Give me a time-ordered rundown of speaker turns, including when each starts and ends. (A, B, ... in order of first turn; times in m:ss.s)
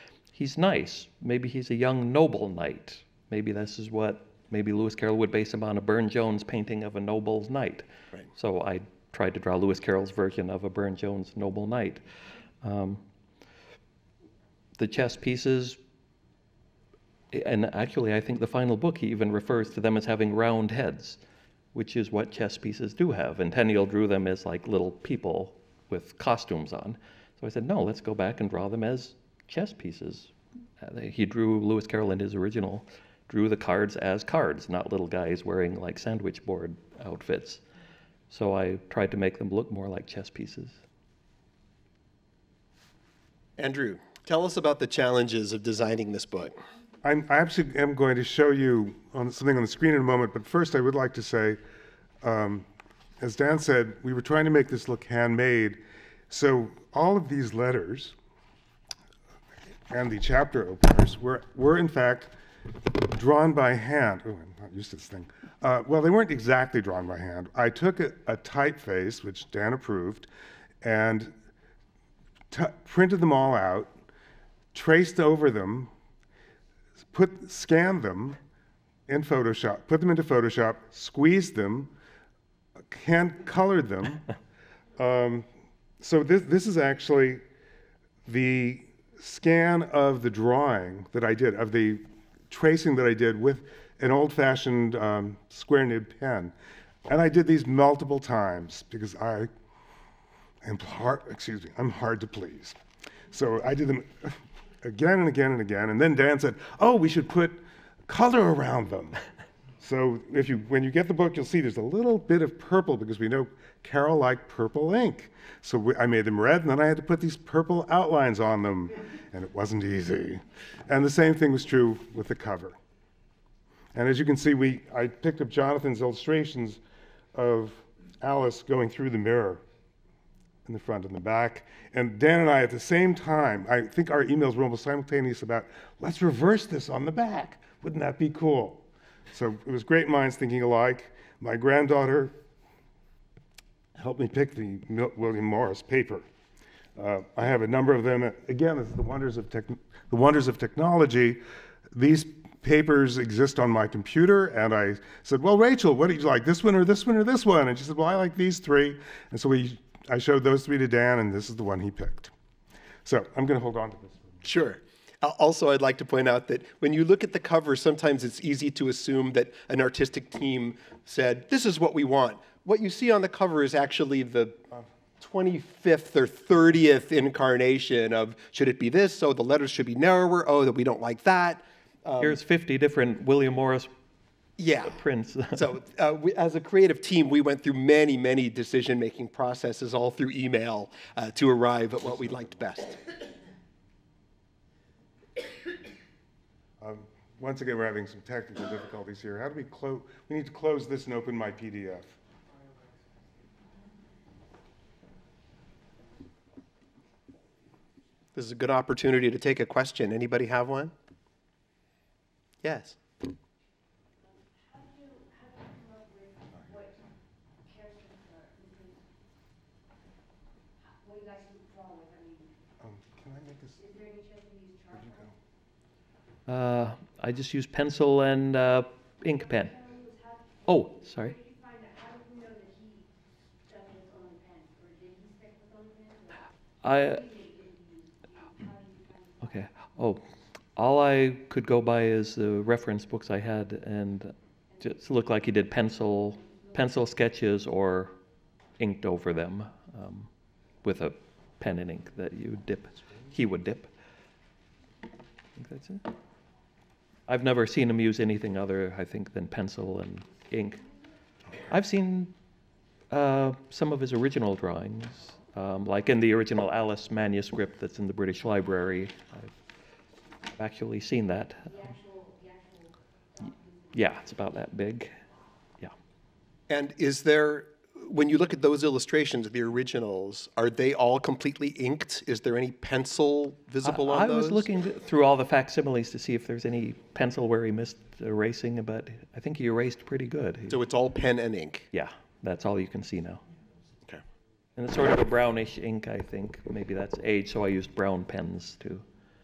0:00.3-0:12.0 A
0:12.6-0:13.0 A
0:14.8-0:15.8 A
0:17.3-0:21.2 A
0:21.7-0:37.6 A
0:38.3-0:40.8 A
0:43.6-0:46.5 B
0:47.0-0:51.6 C
0:52.2-0:52.6 C
0:53.2-0:58.2 C
0:59.9-1:10.3 C
1:10.8-1:11.3 C
1:12.5-1:13.9 C
1:14.7-1:15.9 C
1:17.1-1:18.4 C
1:19.1-1:21.9 C
1:22.9-1:24.2 C
1:25.0-1:25.5 C
1:26.0-1:27.4 C
1:28.2-1:36.5 C
1:37.1-1:39.5 C
1:40.6-1:42.8 C
1:43.3-1:49.2 C
1:49.8-2:02.8 C
2:03.9-2:06.8 C
2:07.3-2:09.6 C
2:10.6-2:22.3 C
2:24.0-2:26.2 C
2:27.0-2:31.4 C
2:31.9-2:42.3 C
2:43.0-2:44.4 C
2:44.4-2:54.6 B
2:55.2-3:02.4 B
3:02.2-3:03.9 A
3:04.6-3:05.0 B
3:04.8-3:05.6 A
3:05.5-3:13.0 B
3:16.8-3:22.1 C
3:28.3-3:30.9 B
3:32.6-3:33.0 B
3:42.8-3:44.0 C
3:44.8-3:45.3 C
3:46.5-3:49.9 A
3:50.6-3:51.4 A
3:56.8-3:57.4 A
3:59.4-4:00.2 A
4:00.8-4:08.1 A
4:08.8-4:10.3 A
4:10.8-4:13.9 A
4:15.6-4:16.0 A
4:17.3-4:20.8 A
4:21.7-4:22.3 A
4:23.1-4:29.5 A
4:30.6-4:31.9 A
4:33.9-4:35.1 A
4:36.7-4:44.6 B
4:43.8-4:50.8 A
4:50.7-4:51.9 B
4:51.9-4:53.4 A
4:54.8-4:59.0 A